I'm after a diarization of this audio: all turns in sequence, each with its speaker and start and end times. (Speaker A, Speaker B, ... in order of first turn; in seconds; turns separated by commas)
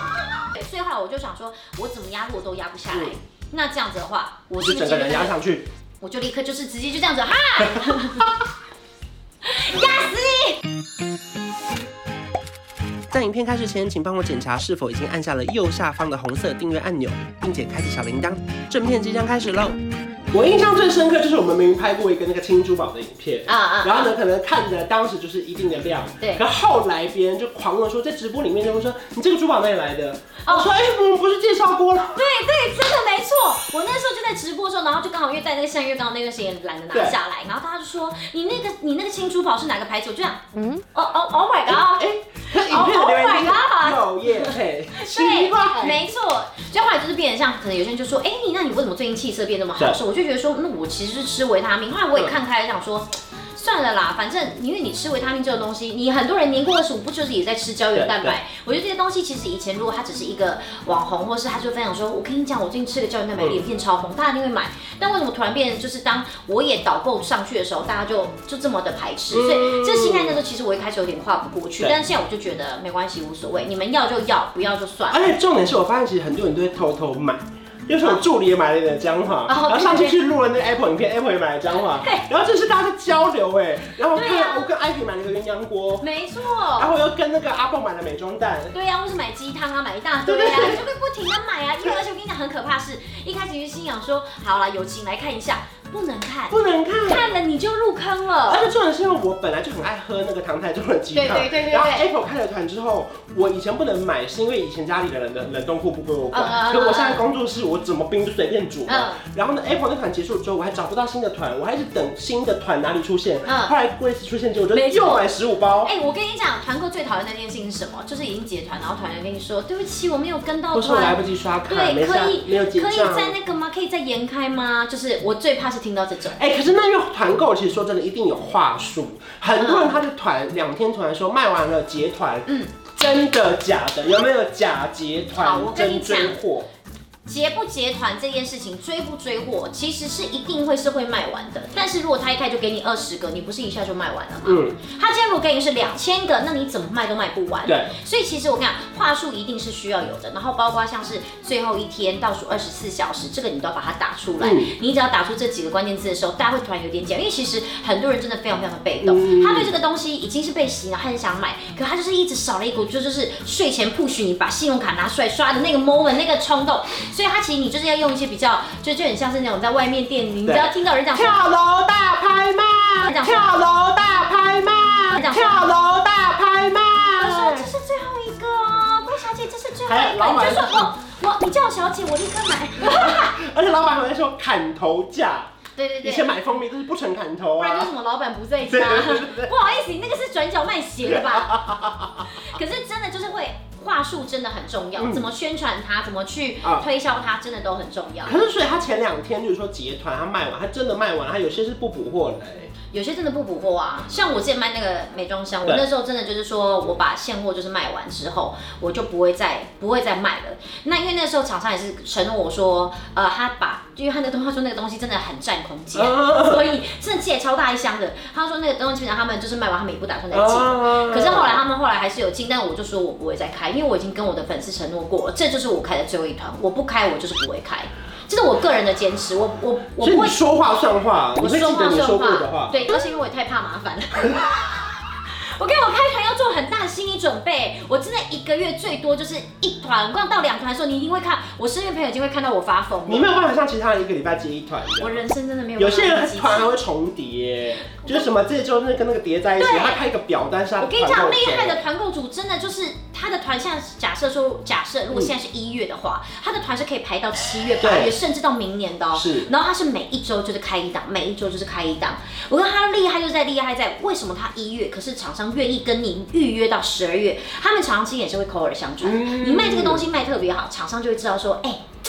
Speaker A: 0.4-5.3, Speaker B: 4.6-5.7, Speaker A: 6.0-8.3, Speaker A: 9.4-10.6, Speaker B: 13.1-19.8, Speaker B: 20.3-32.2, Speaker A: 23.4-24.1, Speaker A: 30.4-30.7, Speaker A: 32.1-75.3, Speaker B: 36.9-37.2, Speaker B: 41.7-46.0, Speaker B: 57.9-58.4, Speaker B: 63.4-63.6, Speaker B: 69.3-70.4, Speaker B: 75.1-86.1, Speaker A: 79.5-80.2, Speaker A: 82.0-82.2, Speaker A: 84.1-84.7, Speaker A: 86.0-86.9, Speaker B: 86.8-88.8, Speaker A: 88.7-98.7, Speaker B: 90.2-90.8, Speaker B: 96.5-97.3, Speaker B: 98.5-115.9, Speaker A: 101.1-102.1, Speaker A: 106.3-107.2, Speaker A: 108.9-109.2, Speaker A: 113.5-113.8, Speaker A: 114.7-115.3, Speaker A: 115.8-126.4, Speaker B: 120.7-123.4, Speaker B: 126.3-136.7, Speaker A: 129.6-130.0, Speaker A: 132.5-132.7, Speaker A: 135.3-136.4, Speaker A: 137.2-171.4, Speaker B: 144.4-144.8, Speaker B: 147.7-147.9, Speaker B: 154.4-154.7, Speaker B: 159.0-159.7, Speaker B: 170.4-177.7, Speaker A: 173.0-173.5, Speaker A: 175.1-175.7, Speaker A: 177.2-183.3, Speaker B: 179.9-180.9, Speaker B: 182.8-185.5, Speaker A: 185.8-186.3, Speaker B: 186.0-187.9, Speaker A: 187.6-191.8, Speaker B: 188.6-189.5, Speaker B: 191.0-192.4, Speaker A: 192.3-198.4, Speaker B: 195.0-195.3, Speaker B: 198.2-202.7, Speaker A: 202.9-230.4, Speaker B: 215.9-216.8, Speaker B: 220.3-221.6, Speaker B: 230.0-232.9, Speaker A: 231.4-243.3, Speaker B: 243.1-245.2, Speaker A: 245.0-246.7, Speaker B: 245.8-251.8, Speaker A: 249.6-250.0, Speaker A: 250.8-271.8, Speaker B: 257.8-258.2, Speaker B: 259.1-259.5, Speaker B: 269.0-270.1